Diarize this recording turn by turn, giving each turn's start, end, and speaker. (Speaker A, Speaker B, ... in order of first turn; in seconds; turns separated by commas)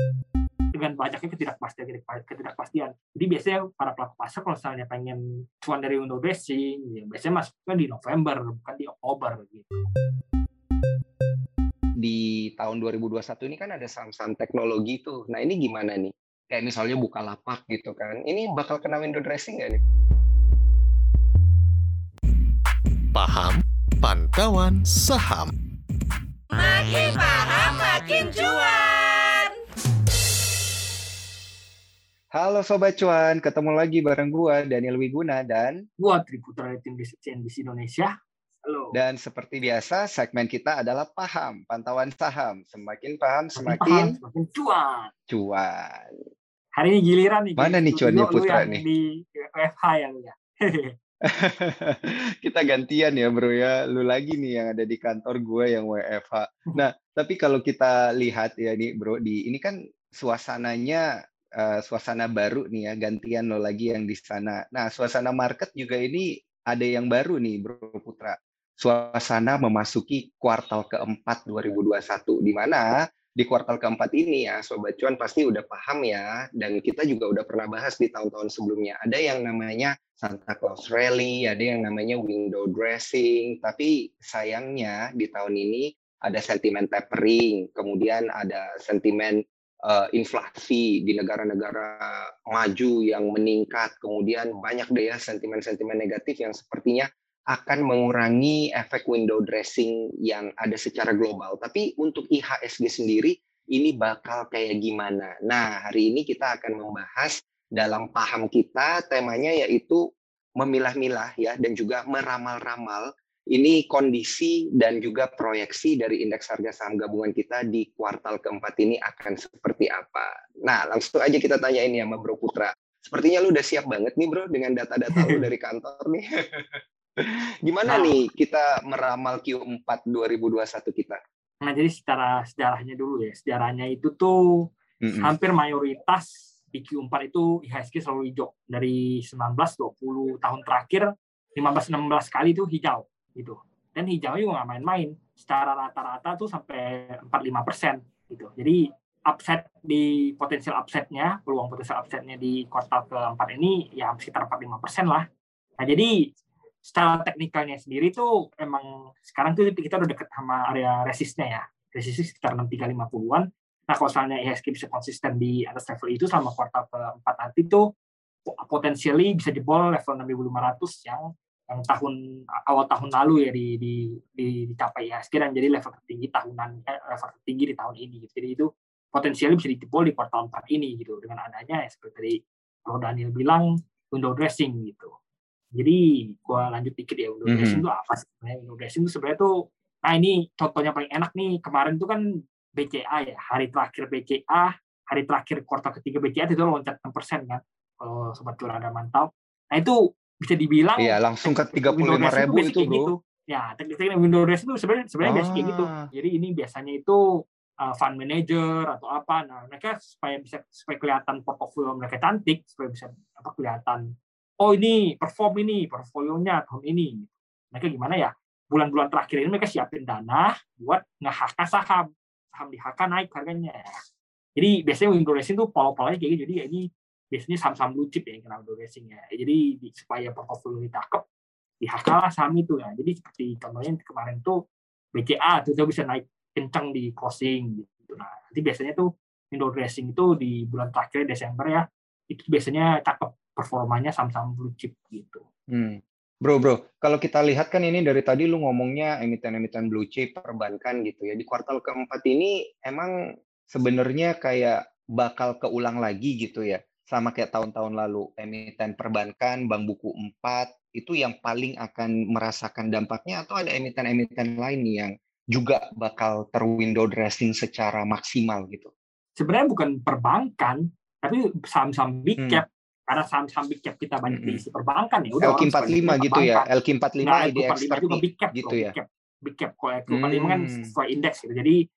Speaker A: 0.7-9.8, Speaker B: 12.0-19.8, Speaker C: 23.1-25.5, Speaker D: 26.5-29.6, Speaker B: 32.3-35.8, Speaker A: 36.0-38.1, Speaker A: 38.6-39.0, Speaker B: 38.9-44.1, Speaker A: 43.6-45.1, Speaker B: 45.3-46.2, Speaker A: 46.8-50.9, Speaker B: 47.6-48.8, Speaker B: 51.3-61.0, Speaker B: 61.6-110.0, Speaker B: 110.6-131.2, Speaker A: 125.2-125.4, Speaker A: 127.9-128.1, Speaker A: 131.6-134.4, Speaker B: 135.0-135.3, Speaker A: 135.1-155.2, Speaker A: 155.8-156.1, Speaker A: 156.8-167.8, Speaker A: 168.4-172.2, Speaker A: 172.7-185.1, Speaker A: 185.7-189.5, Speaker B: 187.5-187.8, Speaker A: 190.0-192.2, Speaker A: 192.8-207.2, Speaker B: 201.0-203.1, Speaker B: 205.2-206.1, Speaker A: 207.8-223.9, Speaker A: 224.6-231.2, Speaker A: 231.8-234.6, Speaker A: 235.1-245.4, Speaker B: 245.7-253.1, Speaker B: 253.7-268.9, Speaker A: 269.4-276.7, Speaker B: 272.4-272.6, Speaker B: 274.3-274.6, Speaker B: 275.4-278.9, Speaker A: 277.2-281.8, Speaker B: 280.1-280.9